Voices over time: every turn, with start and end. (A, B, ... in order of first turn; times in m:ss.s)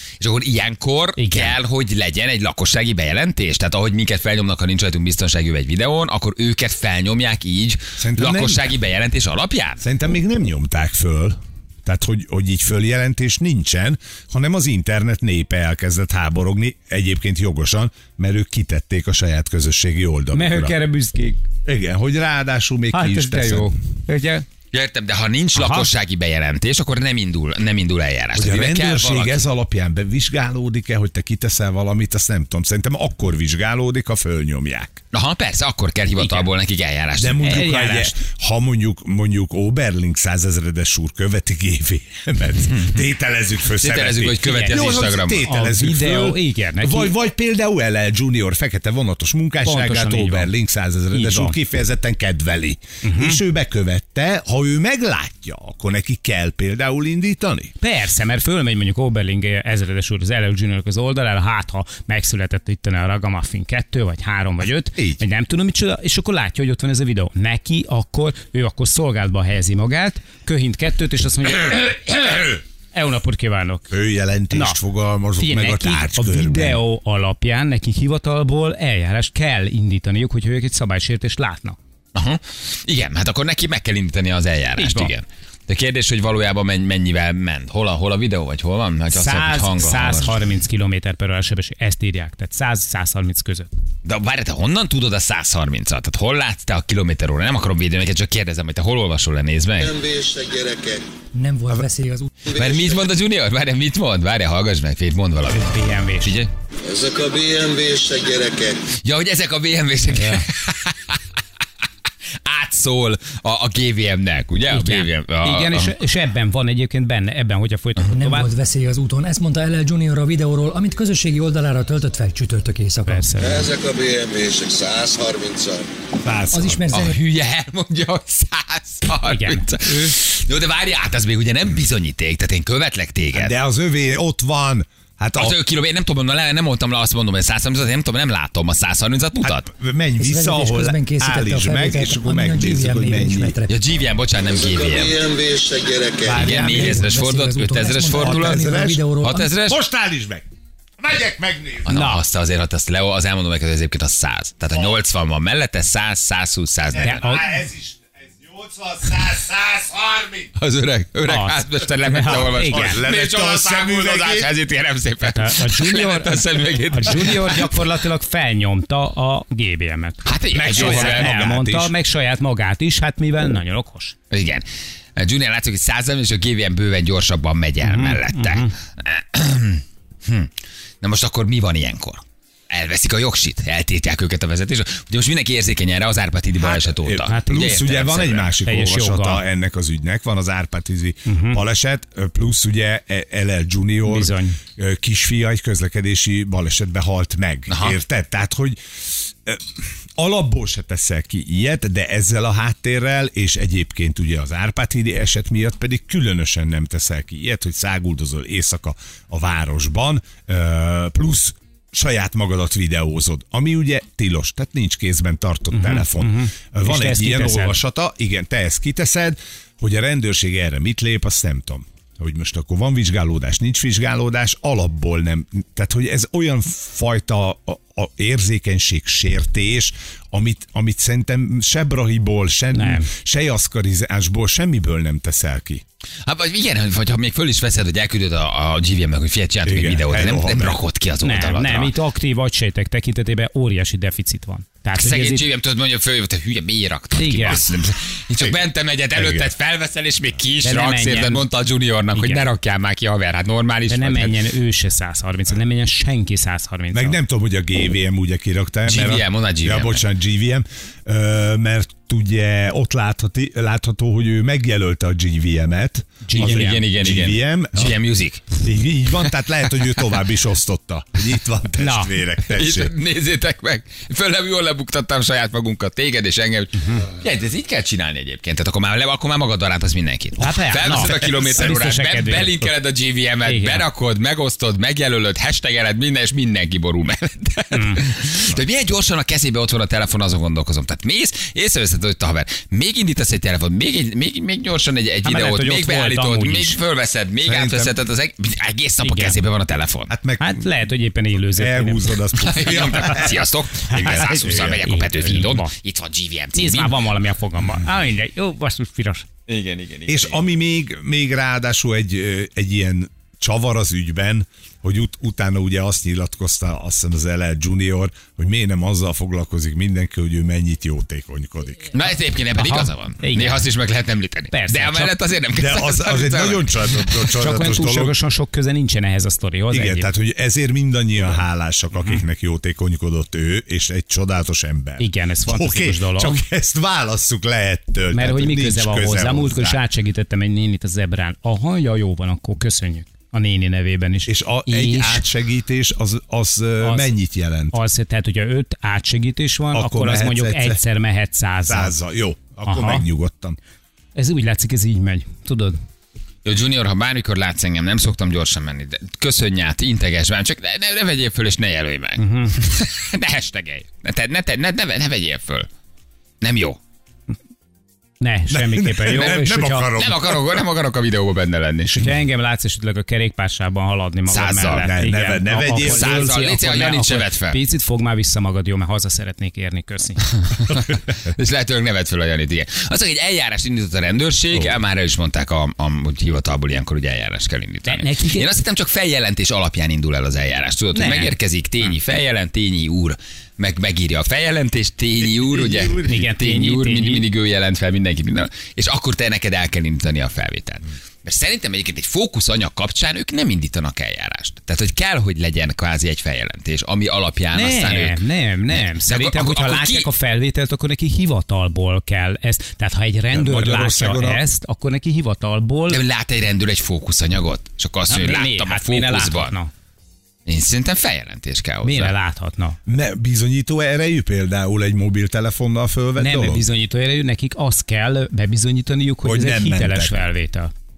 0:00.2-0:09.8 A
0:01.2-0:01.6 B
0:08.0-0:08.7 C
0:09.8-0:20.8 C
0:20.3-0:21.4 B
0:21.7-0:23.7 C
0:22.9-0:24.4 B
0:24.7-0:29.4 A
0:25.6-0:25.9 B
0:28.4-0:35.0 C
0:35.1-0:37.5 A
0:36.2-0:36.5 B
0:37.2-0:57.7 C
0:37.4-0:38.2 B
0:43.8-0:45.5 A
0:44.4-0:47.2 B
0:49.6-0:50.5 B
0:51.1-0:51.6 B
0:53.0-0:53.4 B
0:57.8-1:13.9 B
1:05.0-1:05.2 C
1:13.9-1:16.8 C
1:14.5-1:14.8 B
1:15.4-1:21.8 B
1:22.2-1:30.4 A
1:24.8-1:25.1 B
1:29.1-1:33.7 B
1:34.0-1:40.1 A
1:39.8-1:41.0 D
1:41.3-1:42.4 E
1:42.5-1:45.7 A
1:42.6-1:42.8 D
1:45.5-1:46.3 B
1:46.2-1:46.5 A
1:46.9-1:48.8 D
1:49.0-1:51.2 A
1:52.4-1:56.0 A
1:54.7-1:58.5 B
1:58.1-2:03.3 E
2:03.1-2:03.7 B
2:03.4-2:05.9 D
2:06.2-2:07.0 C
2:06.5-2:07.2 E
2:06.9-2:13.6 A
2:09.2-2:10.0 B
2:13.3-2:15.6 C
2:15.4-2:19.7 A
2:19.4-2:23.6 C
2:20.2-2:23.8 E
2:23.7-2:25.4 A
2:24.6-2:26.3 D
2:26.2-2:27.1 C
2:26.2-2:29.8 A
2:26.3-2:29.5 E
2:28.1-2:29.1 C
2:29.6-2:30.5 C
2:31.0-2:31.9 C
2:31.8-2:37.1 A
2:31.9-2:32.2 B
2:36.9-2:40.5 C
2:37.0-2:37.6 B
2:40.6-2:47.8 A
2:41.2-2:43.0 B
2:42.6-2:44.5 C
2:45.2-2:54.2 B
2:50.2-2:51.4 A
2:50.5-2:51.9 C
2:54.3-2:54.6 A
2:55.2-3:00.5 A
2:57.8-2:58.7 B
3:01.0-3:08.6 A
3:06.6-3:19.6 C
3:07.2-3:07.8 B
3:08.6-3:09.4 B
3:11.3-3:11.6 B
3:14.0-3:14.6 B
3:17.7-3:18.0 A
3:20.2-3:55.8 C
3:35.7-3:37.8 B
3:52.7-3:53.1 B
3:56.3-4:01.9 A
3:59.6-4:00.8 C
4:01.2-4:05.5 B
4:05.0-4:14.4 A
4:07.2-4:07.6 B
4:09.1-4:09.5 C
4:10.6-4:11.5 B
4:12.1-4:12.5 B
4:13.9-4:17.2 B
4:16.9-4:28.0 C
4:18.8-4:20.1 A
4:26.2-4:26.9 B
4:26.4-4:28.6 A
4:28.5-4:32.9 C
4:31.8-4:32.2 B
4:32.5-5:00.1 A
4:40.4-4:42.7 B
4:43.4-4:43.9 B
4:47.7-4:48.0 B
4:55.2-4:56.8 B
4:57.4-4:58.0 C
4:59.0-4:59.4 B
5:00.1-5:00.7 C
5:00.4-5:02.3 B
5:01.4-5:05.0 C
5:02.4-5:06.9 A
5:03.9-5:05.7 B
5:06.5-5:09.2 B
5:09.5-5:10.4 A
5:10.1-5:22.0 C
5:21.9-5:27.3 A
5:22.6-5:23.7 B
5:24.5-5:25.2 B
5:25.5-5:28.2 C
5:27.4-5:30.1 B
5:29.7-5:39.8 C
5:31.9-5:32.2 B
5:35.0-5:36.4 B
5:38.1-5:45.3 B
5:44.3-5:47.8 C
5:46.8-5:47.1 B
5:47.7-5:52.0 B
5:49.7-5:50.8 C
5:51.7-5:53.6 C
5:52.7-5:53.1 B
5:54.2-5:55.8 B
5:56.4-6:05.7 A
6:02.2-6:02.6 B
6:06.4-6:06.8 A
6:08.2-6:09.9 B
6:08.5-6:10.4 C
6:09.1-6:12.1 A
6:11.8-6:20.2 B
6:14.3-6:14.9 A
6:14.7-6:16.4 C
6:15.8-6:17.6 A
6:20.5-6:50.1 A
6:27.8-6:28.6 B
6:30.9-6:31.4 B
6:35.2-6:36.2 C
6:36.0-6:37.3 B
6:47.5-6:56.0 B
6:53.3-6:54.4 C
6:55.9-6:59.6 A
6:58.1-6:59.7 B
7:00.5-7:02.1 A
7:01.8-7:02.8 B
7:02.9-7:06.6 C
7:06.2-7:10.7 B
7:09.2-7:10.2 C